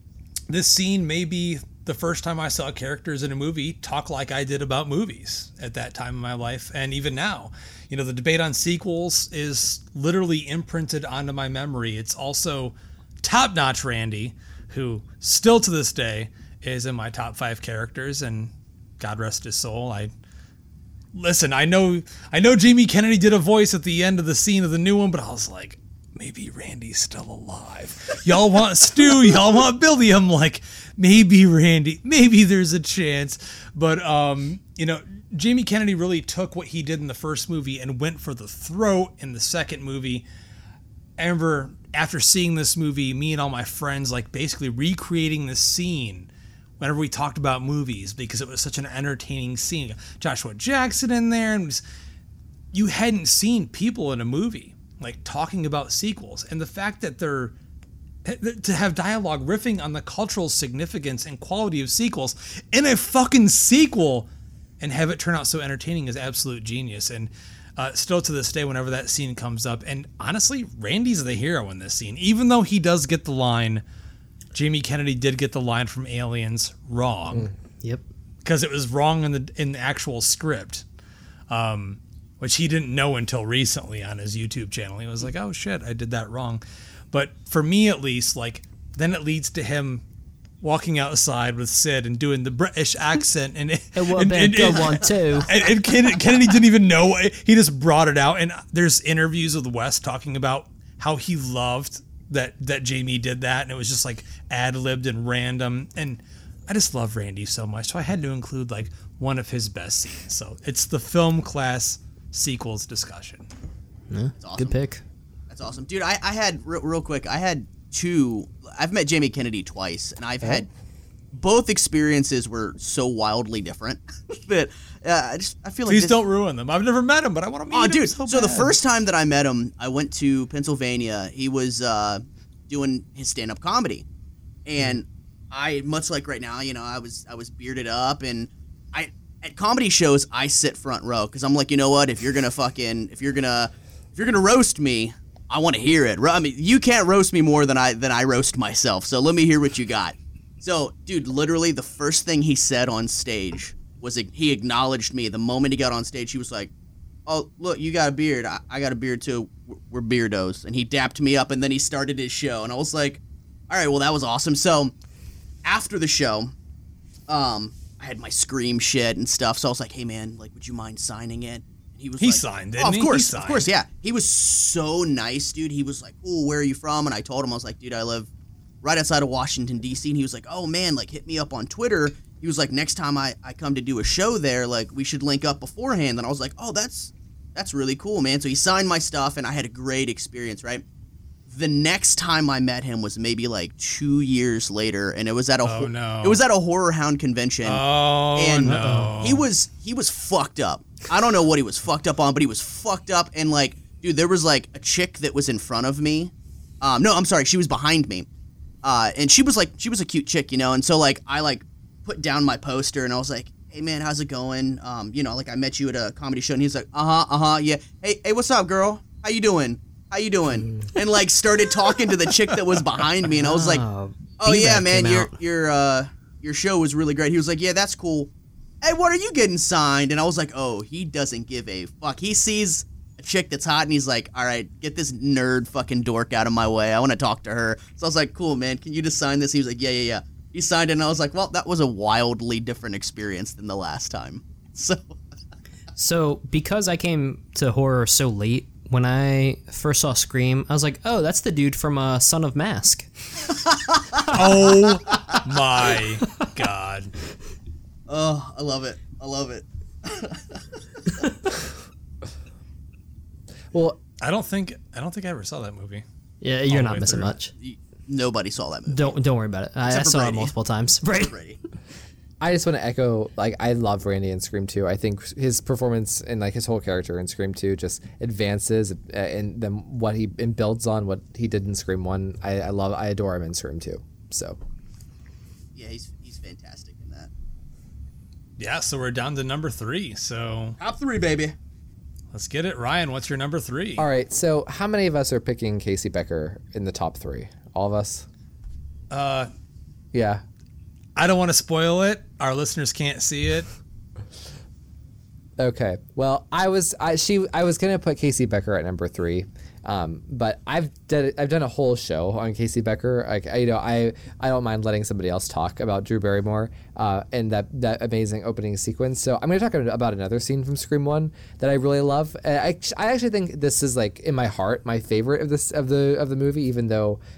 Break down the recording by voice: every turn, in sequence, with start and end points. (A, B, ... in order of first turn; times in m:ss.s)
0:00.5-0:20.1 A
0:21.1-0:40.2 A
0:41.2-0:46.3 A
0:46.8-0:51.8 A
0:52.7-0:57.6 A
0:58.2-1:04.3 A
1:04.8-1:13.8 A
1:14.5-1:17.5 A
1:18.4-1:20.8 A
1:21.5-1:30.0 A
1:30.6-1:53.5 A
1:34.0-1:35.5 B
1:54.1-1:55.0 B
1:54.4-1:54.8 C
1:55.5-2:00.7 C
2:01.3-2:06.2 C
2:05.9-2:08.8 A
2:07.7-2:14.0 C
2:14.7-2:36.7 C
2:37.3-2:44.9 C
2:45.6-2:46.5 C
2:47.3-2:58.3 C
2:52.2-2:53.7 A
2:58.8-3:10.8 C
3:11.5-3:17.8 C
3:15.6-3:16.4 A
3:17.6-3:19.4 A
3:18.3-3:28.3 C
3:18.6-3:19.1 B
3:28.8-3:43.8 C
3:43.3-3:45.4 B
3:44.4-3:48.3 C
3:48.8-4:05.2 C
4:06.0-4:13.1 B
4:14.3-4:17.1 A
4:18.1-4:20.6 C
4:23.7-4:24.0 D
4:24.2-4:26.0 A
4:26.4-4:27.5 B
4:26.7-4:27.4 A
4:27.6-4:29.2 C
4:28.9-4:31.3 B
4:29.8-4:30.5 C
4:31.1-4:31.6 C
4:32.4-4:44.6 D
4:45.8-4:47.3 C
4:48.6-4:50.8 A
4:50.8-4:51.6 C
4:52.3-4:54.1 A
4:54.0-4:58.3 D
4:59.1-4:59.5 A
5:00.1-5:00.4 D
5:01.2-5:03.7 A
5:05.6-5:27.2 D